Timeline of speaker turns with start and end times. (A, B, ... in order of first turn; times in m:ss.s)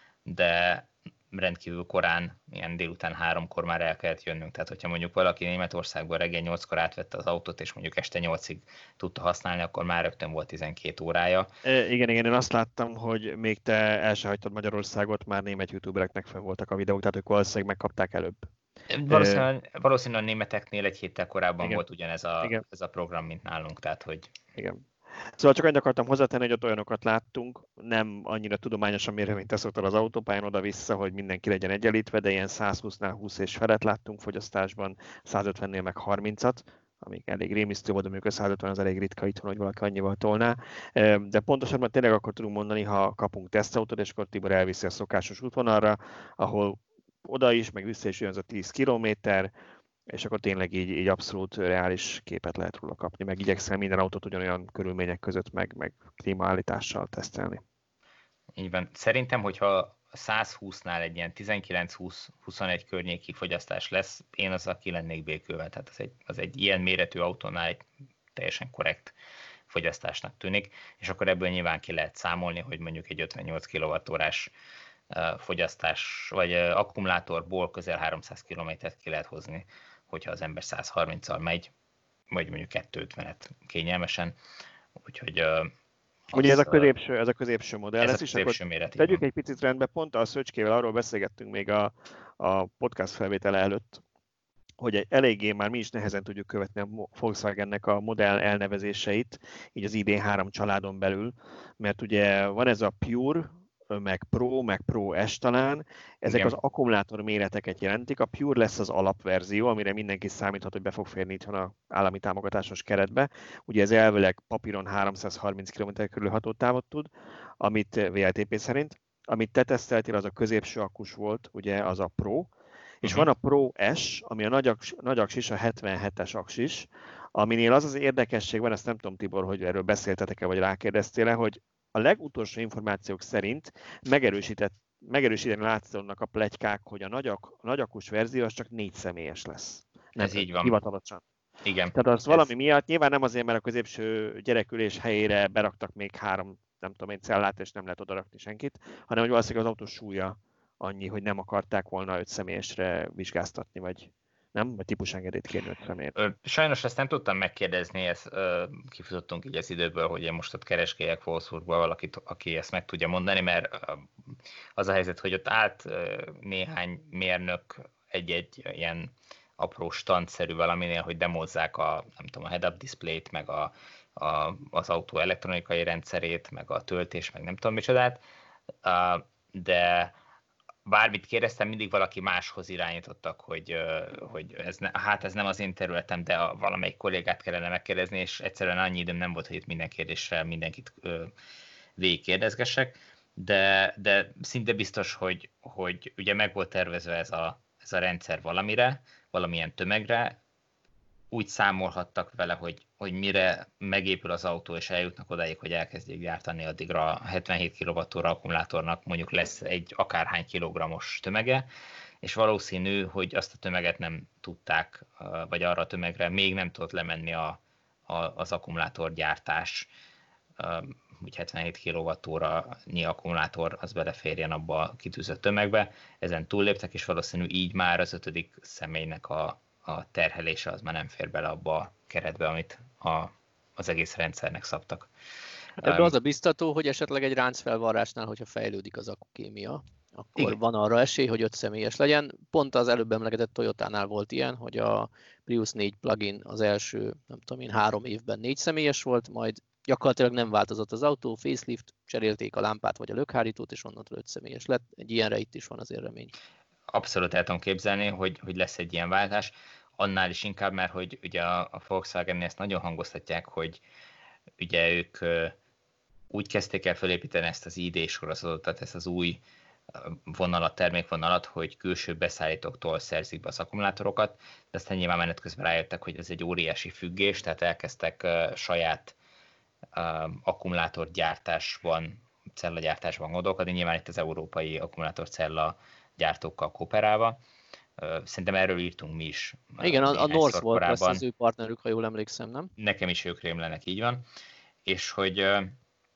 0:00.3-0:11.5 A
0:11.6-0:18.5 B
0:18.9-0:24.4 A
0:19.1-0:19.4 B
0:24.6-0:49.5 B
0:50.1-0:57.6 B
0:58.6-1:09.2 A
1:09.7-1:14.5 A
1:15.1-1:21.7 A
1:22.3-1:24.4 A
1:25.0-1:25.7 A
1:26.3-1:26.9 A
1:26.3-1:34.0 B
1:28.0-1:29.2 A
1:34.8-2:21.2 B
1:46.3-1:46.6 A
2:20.2-2:20.8 A
2:21.6-2:22.5 A
2:22.0-2:36.2 B
2:36.2-2:58.2 A
2:58.8-3:00.2 A
3:00.9-3:11.3 A
3:12.0-3:20.4 A
3:21.3-3:31.6 A
3:32.2-3:39.9 A
3:40.6-3:55.1 A
3:55.8-3:56.1 A
3:55.8-4:16.3 C
4:16.9-4:23.8 A
4:24.6-4:25.6 A
4:26.3-4:29.4 A
4:29.9-4:39.2 A
4:40.0-4:47.4 A
4:48.0-4:51.2 A
4:49.8-4:52.7 C
4:52.8-4:54.2 A
4:54.9-4:55.8 A